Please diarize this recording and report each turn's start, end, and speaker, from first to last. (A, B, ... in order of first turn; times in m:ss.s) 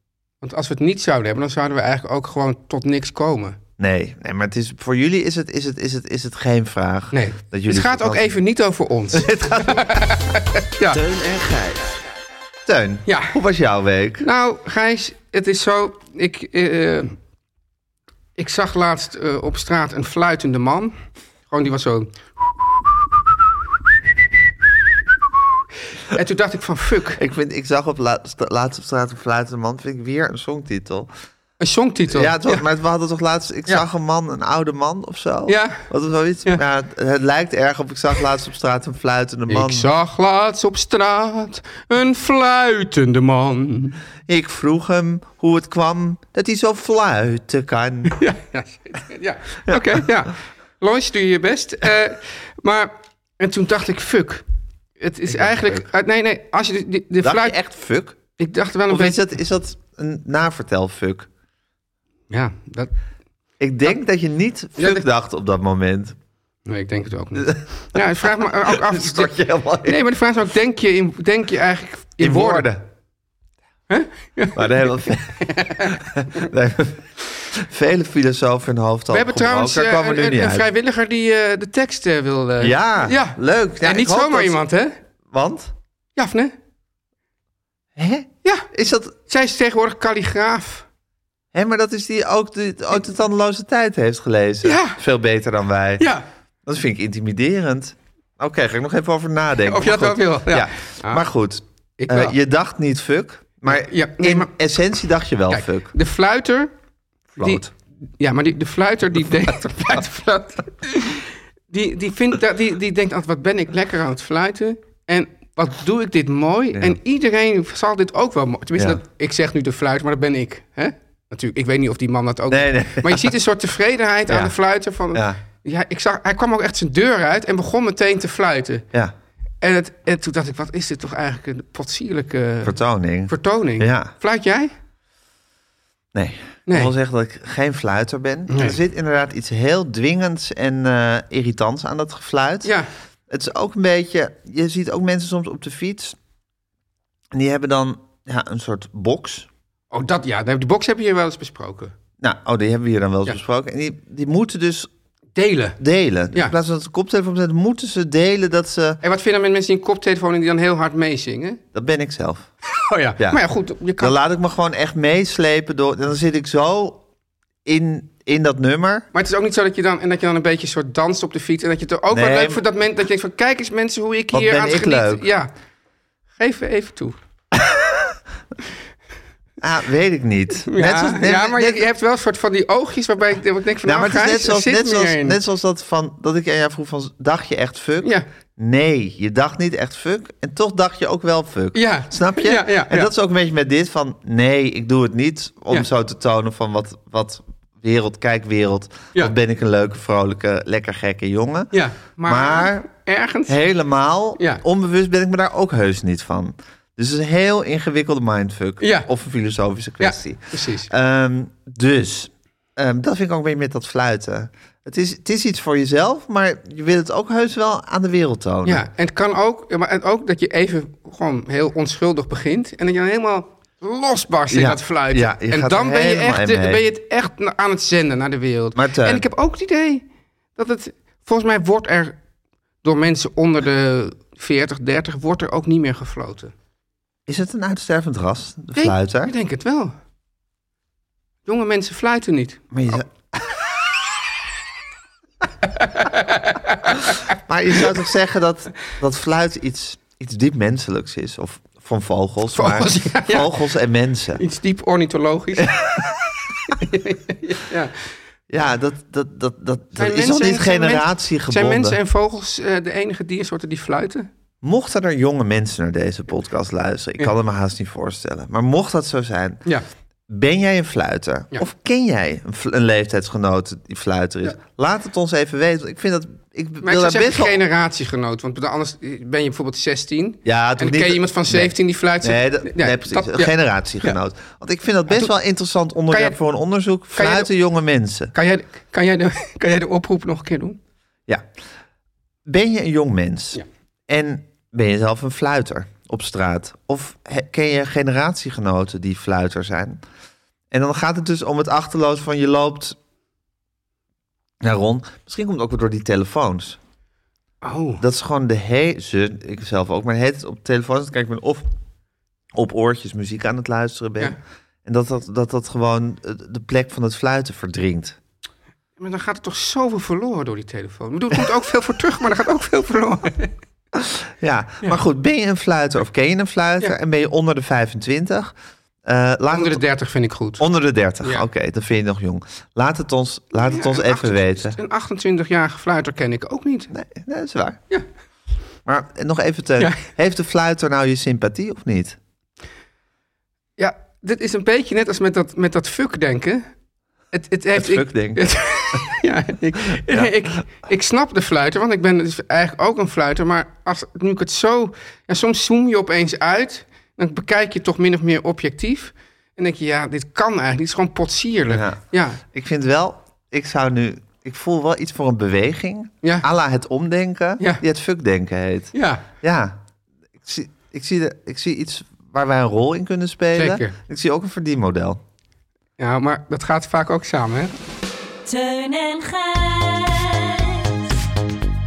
0:00.4-0:03.6 A
0:03.8-0:08.2 B
0:07.1-0:11.0 A
0:09.1-0:09.9 B
0:10.9-0:12.0 B
0:12.6-0:14.3 B
0:13.1-0:13.3 A
0:14.2-0:17.1 A
0:18.4-0:20.9 A
0:21.5-0:22.1 A
0:26.0-0:27.2 A
0:27.2-0:31.1 B
0:31.6-0:32.6 A
0:32.1-0:39.9 B
0:35.5-0:35.8 A
0:39.5-0:44.0 A
0:44.3-0:48.2 B
0:48.1-0:54.4 A
0:49.7-0:50.1 B
0:55.0-0:57.6 A
0:55.3-0:55.8 B
0:57.2-0:58.2 B
0:58.4-0:59.2 A
0:58.9-1:01.3 B
1:02.3-1:02.9 A
1:03.6-1:06.2 B
1:04.8-1:05.0 A
1:06.7-1:12.7 A
1:07.4-1:08.0 B
1:08.6-1:10.0 B
1:12.2-1:12.8 B
1:13.9-1:16.0 A
1:14.6-1:20.6 B
1:19.1-1:24.9 A
1:22.6-1:24.6 B
1:25.3-1:25.7 B
1:26.2-1:26.5 A
1:28.0-1:29.1 B
1:29.3-1:30.8 A
1:31.5-1:36.1 B
1:34.6-1:35.0 A
1:36.0-1:36.2 A
1:36.6-1:45.9 B
1:39.7-1:41.2 A
1:42.0-1:42.3 A
1:43.7-1:44.5 A
1:45.5-1:46.7 A
1:47.4-1:47.6 A
1:47.4-1:47.7 B
1:48.2-2:08.8 A
1:56.7-1:57.0 B
1:58.7-1:59.0 B
2:02.5-2:03.3 B
2:04.3-2:04.5 B
2:05.1-2:05.4 B
2:09.6-2:12.8 A
2:12.6-2:14.1 B
2:13.3-2:14.7 A
2:16.1-2:22.8 B
2:18.5-2:18.8 A
2:23.3-2:26.2 B
2:27.3-2:29.5 B
2:29.9-2:31.9 A
2:32.2-2:34.9 B
2:35.4-2:35.8 A
2:35.8-2:39.0 B
2:39.0-2:41.6 A
2:41.7-2:42.5 B
2:42.8-2:44.2 A
2:44.0-2:47.0 B
2:47.6-2:49.0 B
2:49.1-2:55.5 A
2:52.1-2:52.6 B
2:54.3-2:55.2 B
2:56.4-2:57.1 A
2:57.5-2:58.1 B
2:59.6-3:01.8 B
3:00.7-3:05.4 A
3:03.8-3:22.8 B
3:11.7-3:13.1 A
3:21.7-3:23.6 A
3:23.5-3:38.8 B
3:24.4-3:24.6 A
3:28.8-3:29.1 A
3:30.0-3:30.9 A
3:38.6-3:50.0 A
3:44.5-3:46.8 B
3:48.8-3:49.2 B
3:50.6-3:52.2 A
3:52.8-3:56.5 A
3:57.3-3:59.3 B
3:58.8-3:59.9 A
4:01.4-4:02.6 A
4:02.7-4:03.5 B
4:05.8-4:07.2 A
4:07.5-4:14.4 B
4:12.5-4:13.5 A
4:14.4-4:15.8 A
4:15.6-4:16.1 B
4:16.7-4:17.9 A
4:18.5-4:22.0 B
4:20.0-4:24.3 A
4:24.6-4:29.6 B
4:30.3-4:37.6 B
4:36.8-4:44.2 A
4:40.4-4:48.3 B
4:46.1-4:46.4 A
4:47.1-4:47.5 A
4:48.3-4:50.8 A
4:52.4-5:00.0 B
5:00.7-5:03.0 B
5:04.6-5:06.8 B
5:07.6-5:08.0 A
5:08.0-5:11.7 B
5:12.5-5:18.2 B
5:19.0-5:23.5 A
5:23.9-5:28.5 B
5:29.0-5:29.8 B
5:29.5-5:30.6 A
5:30.6-5:34.8 B
5:33.6-5:36.9 A
5:36.9-5:37.8 B
5:38.8-5:42.2 B
5:43.8-5:46.6 A
5:47.3-6:02.4 A
5:47.8-5:48.4 B
5:50.1-5:50.3 B
6:01.7-6:02.0 B
6:02.5-6:09.8 B
6:08.9-6:09.2 A
6:10.4-6:15.2 B
6:13.6-6:14.0 A
6:16.0-6:17.7 A
6:18.4-6:21.2 C